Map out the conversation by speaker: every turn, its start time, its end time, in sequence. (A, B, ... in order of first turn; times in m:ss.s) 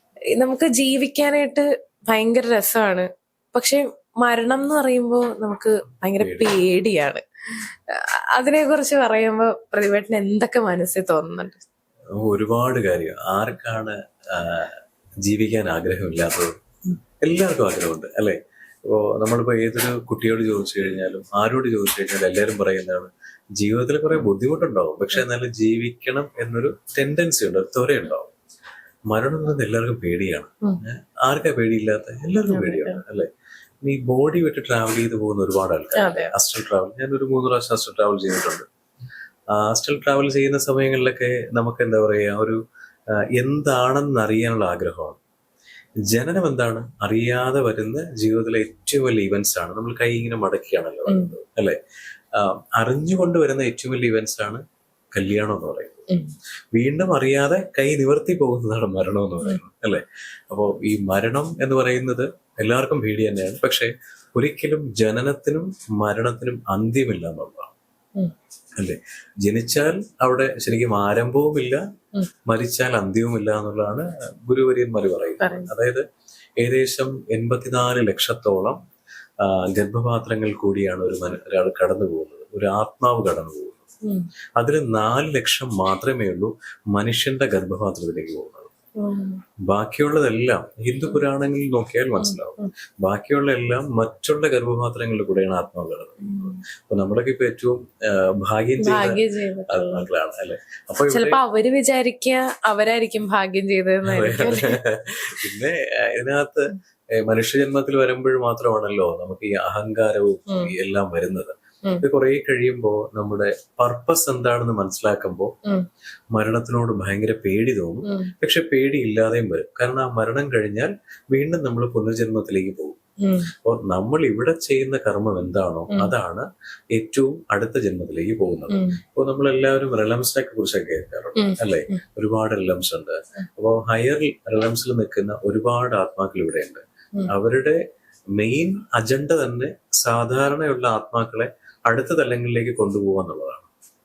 0:00.3-0:11.6 A
0:06.2-0:06.5 B
0:12.2-0:14.7 B
0:15.2-0:16.5 B
0:17.2-0:28.3 B
0:29.1-0:33.3 B
0:32.5-0:33.0 A
0:33.8-0:38.6 B
0:36.0-0:36.3 A
0:39.5-0:42.6 B
0:43.4-0:45.2 B
0:46.1-0:51.8 B
0:51.1-0:51.3 A
0:52.3-0:54.6 B
0:55.1-0:56.1 B
0:56.7-1:07.7 B
1:08.8-1:11.8 B
1:12.5-1:16.0 B
1:15.4-1:15.7 A
1:16.6-1:18.8 B
1:19.4-1:23.8 B
1:24.6-1:28.7 B
1:29.0-1:29.4 A
1:29.7-1:41.4 B
1:32.2-1:32.7 A
1:36.2-1:36.6 A
1:38.8-1:40.0 A
1:41.1-1:44.8 A
1:44.0-1:55.5 B
1:56.3-2:03.0 B
1:58.0-1:58.3 A
2:03.2-2:03.5 A
2:03.6-2:17.8 B
2:08.7-2:09.0 A
2:11.4-2:12.0 A
2:18.4-2:23.7 B